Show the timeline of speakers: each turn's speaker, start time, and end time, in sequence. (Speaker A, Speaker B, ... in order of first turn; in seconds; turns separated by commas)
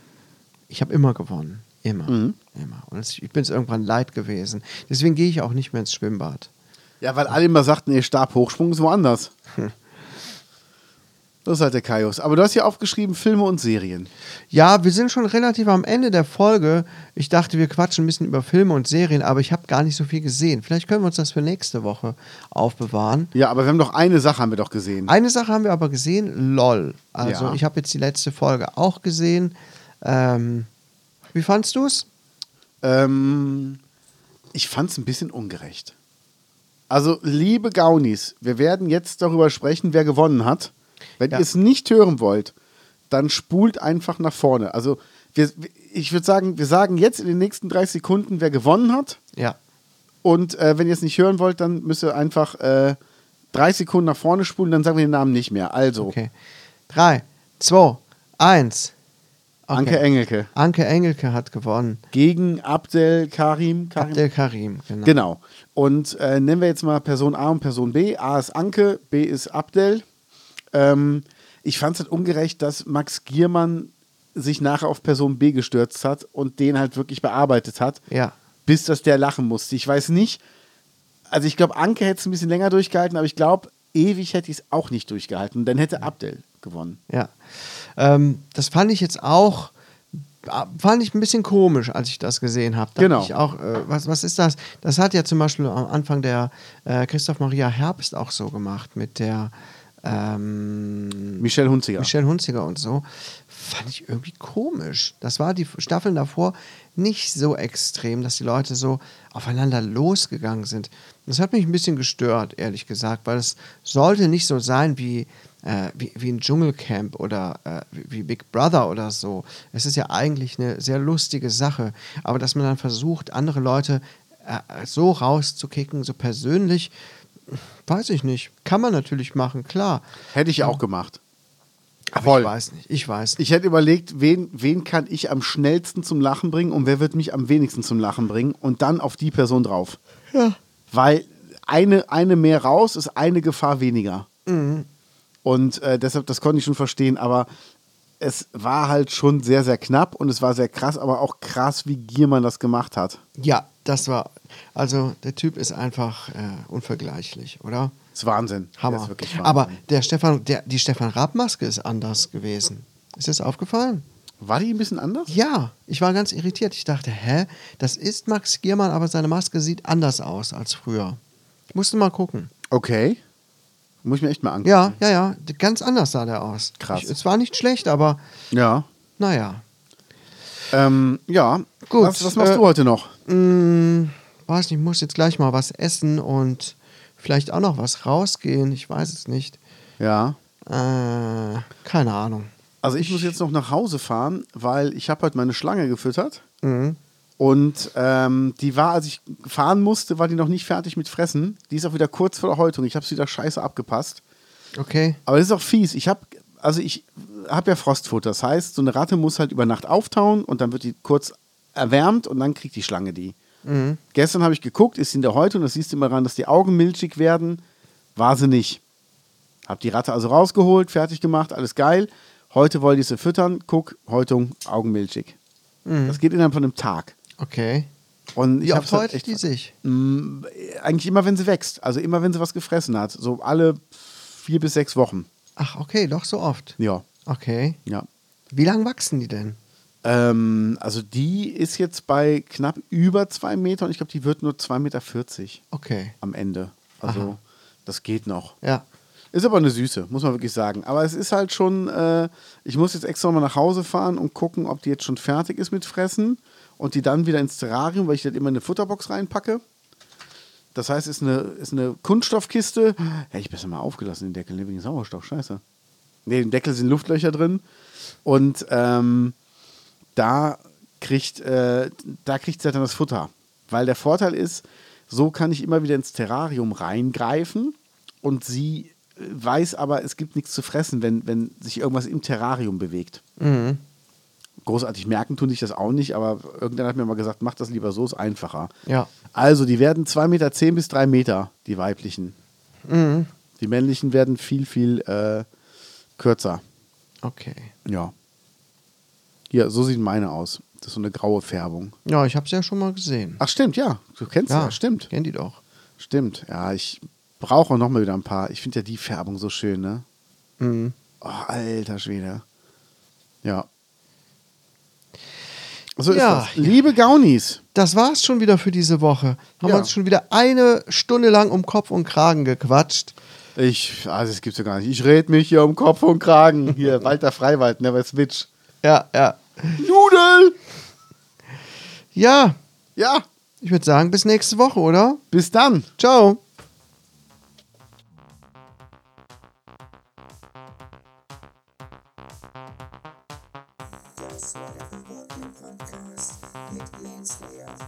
Speaker A: 0.7-6.5, Speaker B: 2.1-2.4, Speaker B: 7.0-9.3, Speaker B: 11.4-14.1, Speaker A: 14.5-23.3, Speaker B: 23.3-25.1, Speaker A: 25.1-30.7, Speaker B: 27.2-27.6, Speaker A: 31.3-32.1, Speaker B: 32.8-33.8, Speaker B: 34.5-35.9, Speaker B: 36.9-42.5, Speaker B: 43.1-49.2, Speaker B: 50.2-53.0, Speaker B: 53.5-56.1, Speaker A: 56.0-56.3, Speaker A: 56.9-58.9, Speaker A: 59.7-62.0, Speaker B: 59.7-60.5, Speaker B: 62.1-64.2, Speaker A: 64.0-65.2, Speaker B: 65.0-70.0, Speaker B: 70.7-78.0, Speaker A: 78.1-78.3, Speaker B: 78.7-80.4, Speaker B: 81.3-87.0, Speaker A: 87.1-101.4, Speaker B: 93.0-93.3, Speaker B: 101.4-102.1, Speaker A: 102.0-126.9, Speaker A: 127.5-130.1, Speaker B: 130.3-131.2, Speaker A: 132.1-133.4, Speaker B: 132.2-132.5, Speaker B: 133.4-140.0, Speaker A: 140.3-140.6, Speaker B: 140.9-144.3, Speaker A: 144.5-144.9, Speaker B: 145.4-147.5, Speaker B: 148.2-153.2, Speaker A: 153.4-157.9, Speaker B: 158.2-159.8, Speaker A: 158.8-164.1, Speaker B: 164.4-165.3, Speaker A: 165.3-171.2, Speaker A: 171.7-172.5, Speaker B: 172.7-173.2, Speaker B: 174.0-175.0, Speaker A: 174.6-178.2, Speaker B: 176.8-177.1, Speaker B: 178.5-178.9, Speaker A: 179.2-179.6, Speaker B: 180.7-183.1, Speaker A: 181.9-182.6, Speaker A: 183.3-189.6, Speaker B: 190.0-190.4, Speaker A: 190.7-193.3, Speaker B: 192.8-196.4, Speaker A: 196.6-197.0, Speaker B: 197.4-204.2, Speaker A: 204.8-205.2, Speaker B: 205.3-213.4, Speaker A: 213.7-214.0, Speaker B: 214.1-217.6, Speaker B: 218.2-218.8, Speaker B: 219.7-225.4, Speaker A: 225.8-226.2, Speaker B: 226.1-227.2, Speaker A: 227.4-227.9, Speaker B: 228.3-235.3, Speaker A: 228.6-229.7, Speaker A: 235.6-237.8, Speaker B: 236.8-237.1, Speaker A: 238.5-239.6, Speaker B: 240.0-245.6, Speaker A: 245.7-246.1, Speaker B: 246.2-248.6, Speaker A: 247.1-247.3, Speaker B: 249.3-259.6, Speaker B: 260.8-265.6, Speaker B: 266.3-267.6, Speaker B: 268.2-269.4, Speaker B: 270.1-283.2, Speaker A: 283.4-283.8, Speaker B: 284.6-288.7, Speaker B: 289.3-292.4, Speaker A: 292.9-293.3, Speaker B: 293.6-295.5, Speaker B: 296.2-296.6, Speaker A: 297.2-297.7, Speaker B: 297.9-298.1, Speaker B: 299.5-301.9, Speaker A: 302.1-303.4, Speaker B: 303.4-305.1, Speaker A: 304.5-305.6, Speaker B: 306.0-310.0, Speaker A: 310.6-310.9, Speaker B: 311.2-312.4, Speaker B: 316.0-317.6, Speaker A: 316.1-316.8, Speaker A: 317.8-323.2, Speaker B: 319.6-319.9, Speaker B: 323.6-328.5, Speaker A: 328.8-329.8, Speaker B: 329.8-330.6, Speaker A: 332.1-332.6, Speaker B: 333.0-333.3, Speaker A: 333.6-335.2, Speaker B: 335.3-335.9, Speaker A: 336.0-336.4